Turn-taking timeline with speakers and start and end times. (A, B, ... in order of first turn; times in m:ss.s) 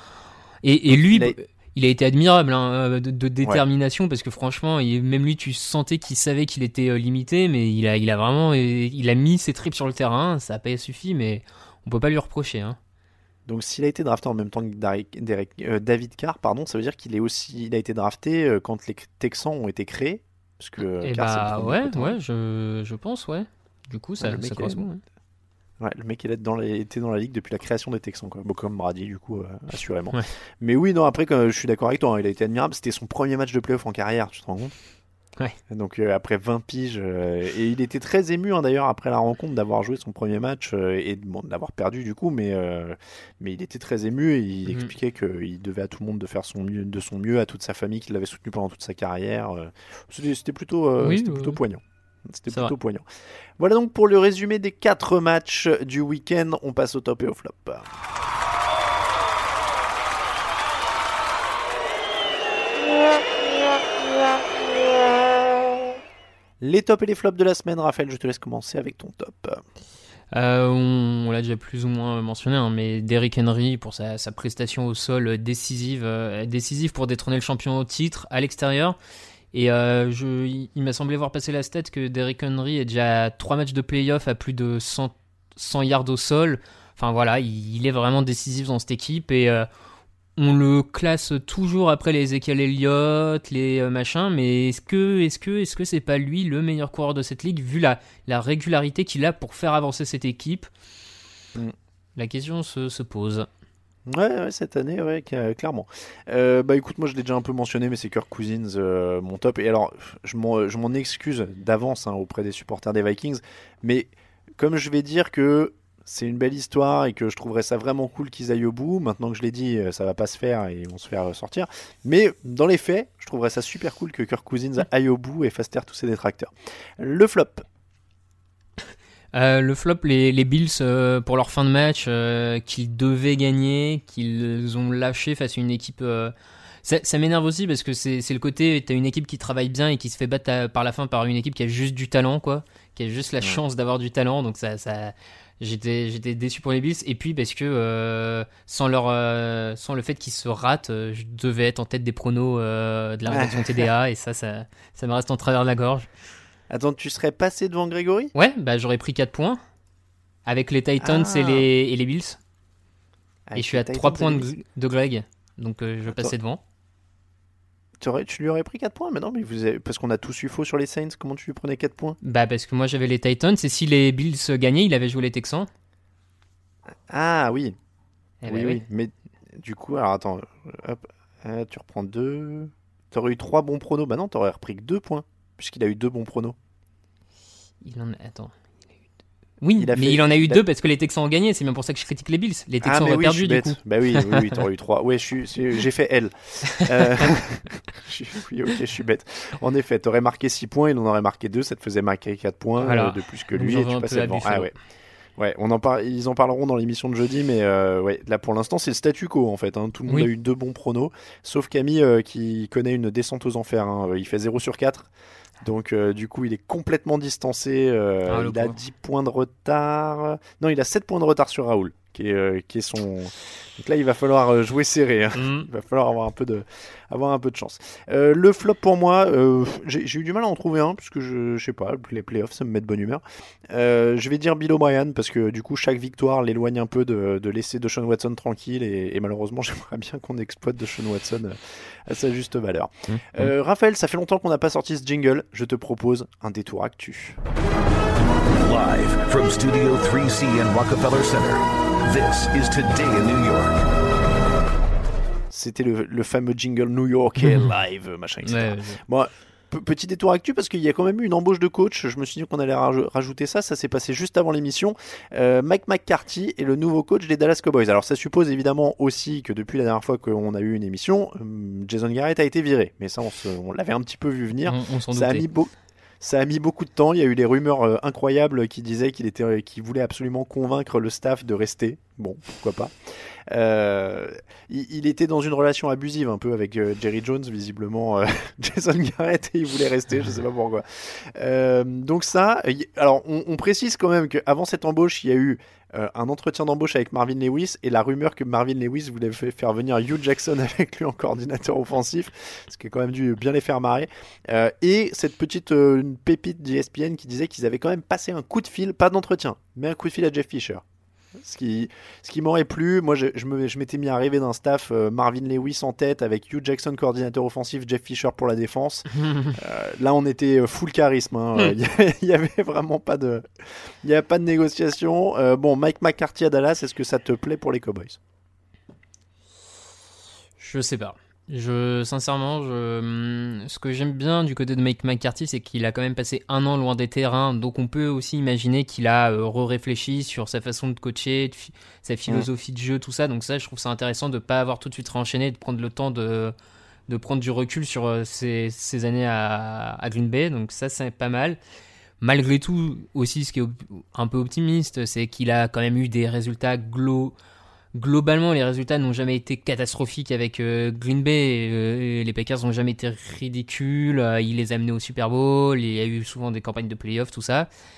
0:00.6-0:12.8 A
0:00.9-0:01.4 B
0:13.5-0:22.2 B
0:21.0-0:25.0 A
0:24.2-0:24.8 B
0:25.8-0:34.8 B
0:35.7-0:53.0 B
0:51.0-0:51.6 A
0:53.6-0:57.9 B
1:06.6-1:09.6 B
1:10.3-1:19.0 A
1:19.5-1:29.7 A
1:30.4-1:40.7 A
1:42.2-1:43.5 A
1:44.1-2:07.7 B
2:09.3-2:16.3 A
2:16.8-2:36.1 A
2:33.3-2:33.9 B
2:36.7-2:38.3 B
2:38.4-2:39.6 A
2:40.5-2:42.4 A
2:41.0-2:41.7 B
2:43.5-2:44.5 B
2:43.6-2:46.6 A
2:46.1-2:46.3 B
2:48.0-2:52.2 B
2:52.2-2:55.7 A
2:57.1-2:57.8 B
2:58.4-2:58.8 A
2:58.4-3:06.6 B
3:07.8-3:08.5 A
3:09.6-3:14.6 A
3:09.8-3:10.6 B
3:12.8-3:24.7 B
3:16.9-3:17.3 A
3:22.8-3:24.7 A
3:25.4-3:35.1 B
3:35.6-4:07.4 B
3:38.3-3:38.8 A
3:45.4-3:45.7 A
4:08.6-4:13.8 C
4:15.5-4:42.9 B
4:17.4-4:17.7 A
4:18.4-4:19.0 A
4:34.7-4:35.5 A
4:43.5-5:10.8 B
5:11.4-5:28.2 B
5:19.2-5:19.6 A
5:30.6-5:46.6 A
5:47.1-5:51.6 A
5:52.2-5:57.3 A
5:58.0-6:07.7 A